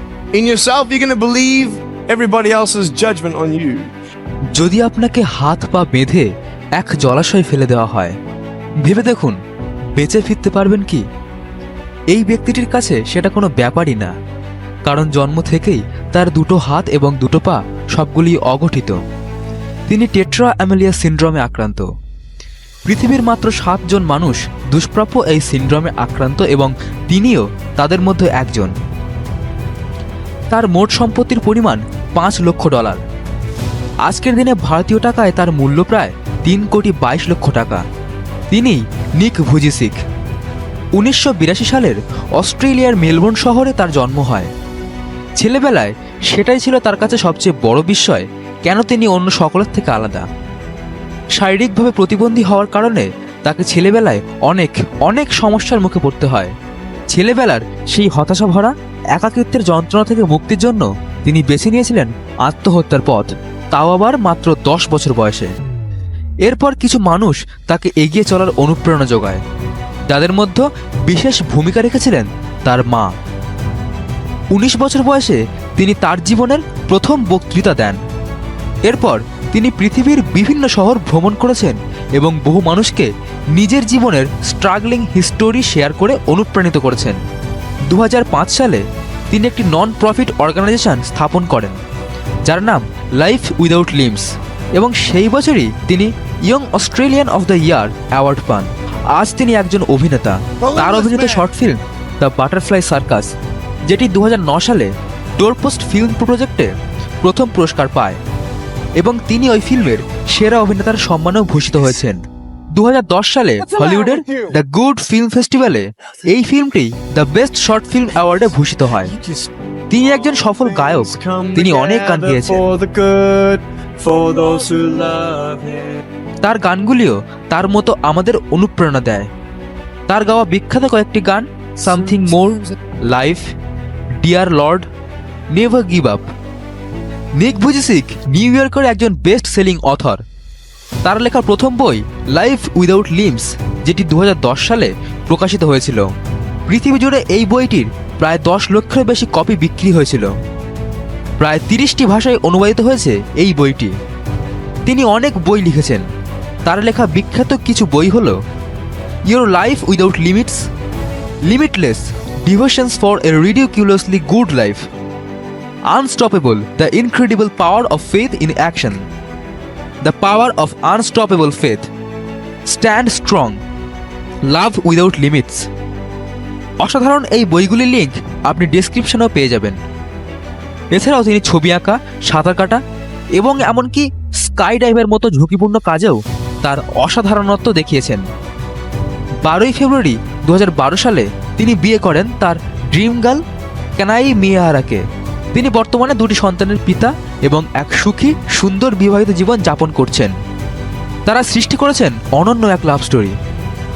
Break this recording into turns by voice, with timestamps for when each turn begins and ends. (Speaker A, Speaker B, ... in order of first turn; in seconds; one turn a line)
Speaker A: 0.3-3.9
Speaker B: 4.5-8.1
Speaker B: 8.8-9.3
Speaker B: 10.0-11.0
Speaker B: 12.1-14.1
Speaker B: 14.8-19.0
Speaker B: 19.9-21.8
Speaker B: 22.9-28.7
Speaker B: 30.5-33.0
Speaker B: 34.0-37.8
Speaker B: 38.5-40.0
Speaker B: 41.0-44.5
Speaker B: 45.4-50.2
Speaker B: 51.4-56.5
Speaker B: 57.1-65.5
Speaker B: 66.5-69.4
Speaker B: 70.1-73.1
Speaker B: 74.5-78.0
Speaker B: 78.8-87.2
Speaker B: 87.9-91.7
Speaker B: 92.5-94.2
Speaker B: 94.8-103.3
Speaker A: 100.6-101.4
Speaker B: 103.9-106.7
Speaker B: 107.2-108.2
Speaker B: 109.0-112.2
Speaker B: 112.7-119.1
Speaker A: 113.6-114.5
Speaker A: 118.9-119.5
Speaker B: 119.9-122.6
Speaker A: 120.7-126.0
Speaker B: 126.4-129.3
Speaker B: 130.1-133.4
Speaker A: 131.9-132.2
Speaker B: 134.2-134.8
Speaker B: 135.5-136.2
Speaker B: 137.4-140.2
Speaker B: 141.0-146.0
Speaker B: 146.7-150.3
Speaker B: 151.4-153.9
Speaker B: 154.9-156.0
Speaker B: 156.7-158.4
Speaker B: 159.3-160.6
Speaker B: 161.5-164.8
Speaker B: 165.9-169.0
Speaker B: 170.0-171.9
Speaker B: 172.7-173.6
Speaker B: 174.5-175.7
Speaker B: 176.8-179.8
Speaker B: 180.9-182.8
Speaker B: 183.4-188.2
Speaker B: 189.4-193.4
Speaker B: 194.0-195.0
Speaker B: 195.5-200.3
Speaker B: 201.3-203.3